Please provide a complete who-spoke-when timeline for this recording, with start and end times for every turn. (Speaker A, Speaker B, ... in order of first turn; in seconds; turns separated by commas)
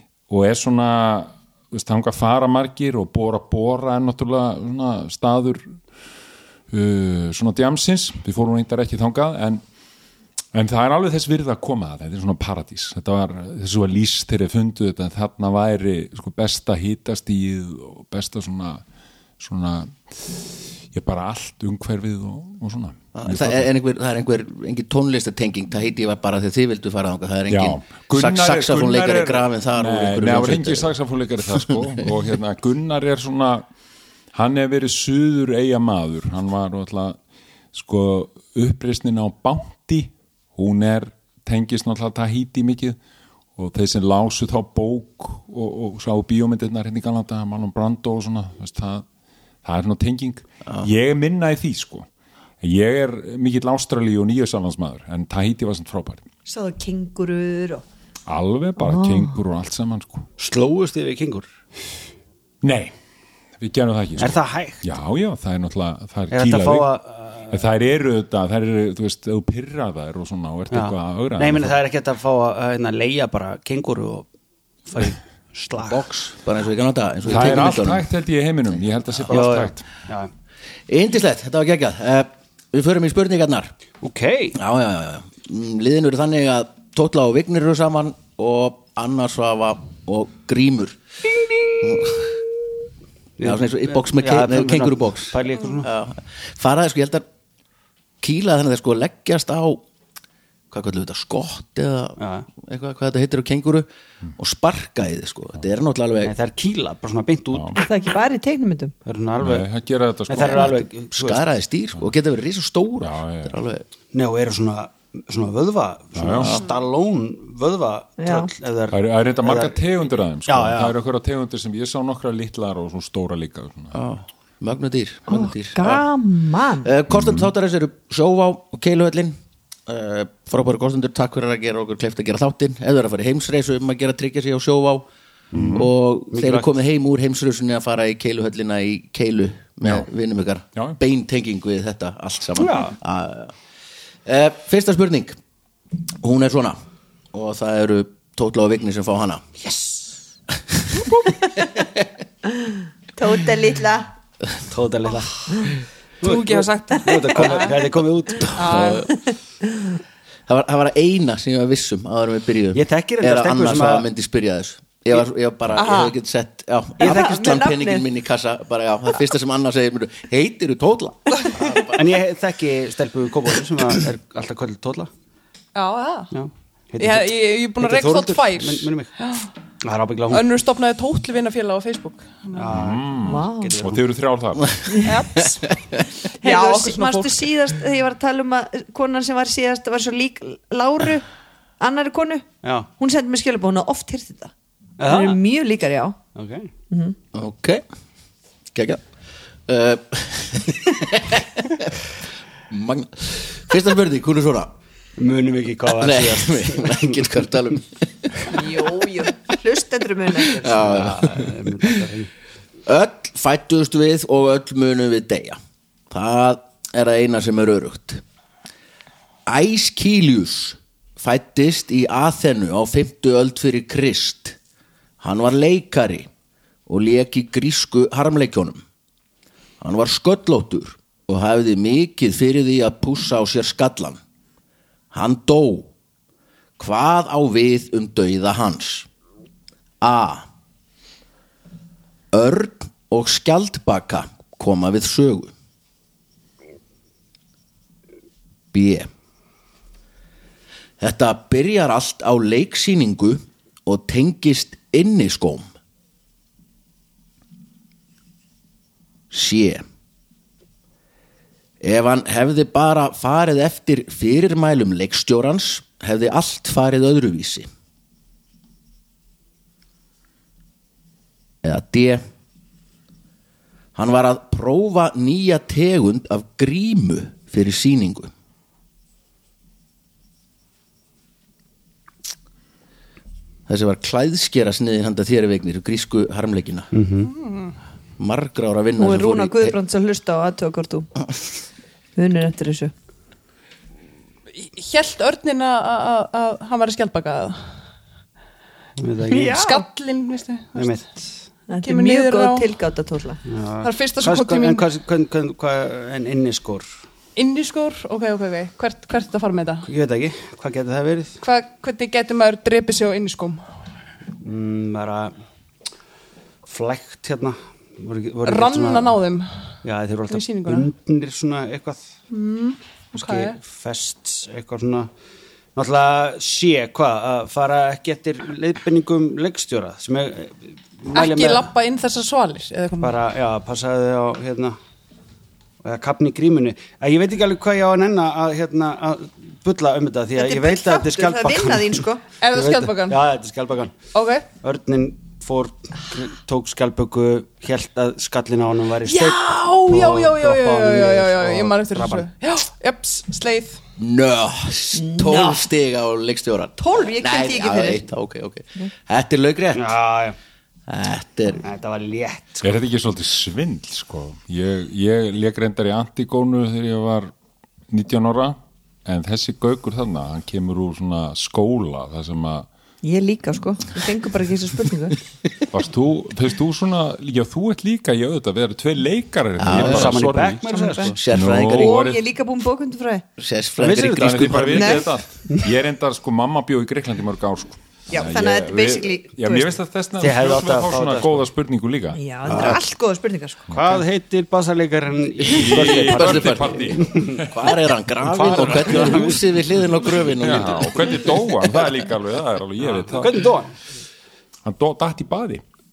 Speaker A: 0.3-5.8, Speaker A: 6.7-9.6, Speaker A: 10.5-18.8, Speaker A: 19.4-23.6, Speaker B: 23.1-30.9, Speaker A: 27.5-33.6, Speaker B: 31.5-31.8, Speaker A: 34.3-37.2, Speaker A: 37.7-43.0, Speaker A: 43.5-49.0, Speaker A: 49.6-52.1, Speaker A: 52.6-56.2, Speaker C: 56.5-57.8, Speaker A: 58.3-60.3, Speaker C: 58.8-59.3, Speaker D: 60.4-61.5, Speaker A: 62.6-62.9, Speaker A: 63.6-66.9, Speaker D: 64.2-64.8, Speaker D: 66.3-67.6, Speaker A: 67.5-71.8, Speaker D: 70.7-74.3, Speaker D: 74.9-76.0, Speaker B: 75.8-78.0, Speaker A: 77.3-79.8, Speaker D: 79.3-80.3, Speaker B: 80.9-83.7, Speaker D: 84.0-84.6, Speaker B: 84.5-91.0, Speaker B: 91.8-92.4, Speaker D: 93.4-95.9, Speaker B: 93.4-97.2, Speaker B: 98.2-99.8, Speaker B: 100.7-103.8, Speaker D: 102.2-102.5, Speaker B: 104.4-106.3, Speaker D: 106.2-107.8, Speaker A: 107.5-107.8, Speaker C: 107.8-108.9, Speaker D: 109.0-109.7, Speaker A: 109.4-110.8, Speaker D: 110.3-111.4, Speaker B: 110.4-113.8, Speaker A: 113.0-113.6, Speaker D: 114.1-119.7, Speaker A: 116.1-116.6, Speaker B: 116.2-116.6, Speaker C: 118.2-118.5, Speaker A: 118.9-124.0, Speaker D: 120.5-120.9, Speaker B: 123.9-126.0, Speaker C: 125.3-126.9, Speaker B: 126.8-135.1, Speaker A: 127.1-127.5, Speaker A: 135.5-135.8, Speaker D: 135.5-136.7, Speaker B: 135.7-143.5, Speaker D: 142.6-142.9, Speaker B: 144.2-145.3, Speaker B: 146.2-146.8, Speaker B: 147.3-149.5, Speaker D: 149.8-150.1, Speaker B: 150.5-151.1, Speaker E: 151.0-151.4, Speaker B: 151.8-152.1, Speaker C: 153.2-154.1, Speaker D: 154.7-155.4, Speaker E: 156.2-157.9, Speaker D: 156.2-159.0, Speaker C: 156.9-157.2, Speaker E: 158.5-159.1, Speaker B: 158.6-159.1, Speaker C: 159.1-159.9, Speaker B: 160.5-172.0, Speaker D: 162.7-164.1, Speaker E: 165.8-166.1, Speaker C: 167.0-168.0, Speaker D: 171.6-175.1, Speaker E: 175.8-176.3, Speaker D: 176.3-179.2, Speaker E: 177.0-179.5, Speaker D: 179.8-180.5, Speaker E: 180.3-182.7, Speaker D: 182.5-184.0, Speaker A: 182.7-184.8, Speaker C: 183.2-183.8, Speaker B: 184.6-185.9, Speaker E: 185.0-185.7, Speaker E: 186.4-187.5, Speaker C: 186.4-191.3, Speaker C: 191.8-196.2, Speaker D: 192.6-192.9, Speaker D: 195.0-195.4, Speaker D: 196.3-196.7, Speaker C: 196.9-197.2, Speaker B: 197.3-197.8, Speaker B: 198.7-199.0, Speaker B: 199.7-202.0, Speaker B: 202.7-204.7, Speaker D: 205.2-207.2, Speaker B: 206.0-207.9, Speaker C: 208.5-211.0, Speaker B: 210.6-211.9, Speaker D: 210.6-212.3, Speaker B: 212.8-215.6, Speaker B: 216.1-218.2, Speaker B: 219.5-224.6, Speaker B: 225.2-226.3, Speaker B: 226.9-228.8, Speaker B: 229.8-234.2, Speaker B: 235.1-235.9, Speaker B: 236.8-239.1, Speaker B: 240.0-240.5, Speaker B: 242.3-245.5, Speaker B: 248.7-249.1, Speaker B: 251.0-255.7, Speaker B: 259.3-259.8, Speaker B: 261.8-267.7, Speaker B: 271.6-272.2, Speaker B: 274.0-278.3, Speaker B: 283.7-286.9, Speaker D: 286.9-287.3, Speaker E: 287.2-287.8, Speaker B: 288.2-289.8, Speaker C: 289.0-291.1, Speaker C: 292.1-292.9, Speaker E: 294.5-297.8, Speaker D: 299.0-299.8, Speaker E: 299.3-301.0, Speaker C: 299.3-299.8, Speaker D: 300.8-301.3, Speaker C: 301.7-303.4, Speaker E: 301.8-302.7, Speaker D: 303.5-306.9, Speaker E: 303.8-304.9, Speaker E: 307.3-309.9, Speaker D: 309.9-311.4, Speaker E: 311.4-313.7, Speaker D: 314.4-315.3, Speaker D: 316.6-319.1, Speaker E: 318.4-319.8, Speaker D: 319.8-322.0, Speaker E: 320.3-320.9, Speaker E: 322.3-323.6, Speaker D: 323.1-325.1, Speaker D: 325.8-331.7, Speaker E: 331.1-333.2, Speaker D: 333.0-334.8, Speaker D: 335.8-344.0, Speaker C: 340.4-342.2, Speaker E: 342.4-343.2, Speaker E: 344.1-344.5, Speaker D: 344.6-352.3, Speaker E: 349.1-353.8, Speaker B: 349.6-350.1, Speaker B: 354.0-359.9, Speaker C: 354.9-355.6, Speaker C: 356.8-358.0, Speaker D: 359.7-360.4, Speaker B: 360.9-361.6, Speaker D: 361.6-362.7, Speaker A: 362.6-367.3, Speaker A: 367.9-372.7, Speaker C: 373.0-375.2, Speaker A: 375.7-380.6, Speaker B: 379.6-380.2, Speaker D: 379.6-381.2, Speaker C: 380.7-383.2, Speaker B: 381.1-382.0, Speaker A: 381.3-382.2, Speaker B: 383.4-385.0, Speaker D: 383.8-385.6, Speaker A: 384.1-392.8, Speaker C: 388.1-389.7, Speaker D: 390.2-391.4, Speaker C: 392.1-393.7, Speaker D: 392.5-392.8, Speaker A: 393.7-394.0, Speaker D: 393.7-397.5, Speaker A: 395.5-397.5, Speaker B: 395.5-401.1, Speaker D: 398.2-400.8, Speaker A: 400.4-403.4, Speaker D: 402.8-403.7, Speaker A: 404.6-405.6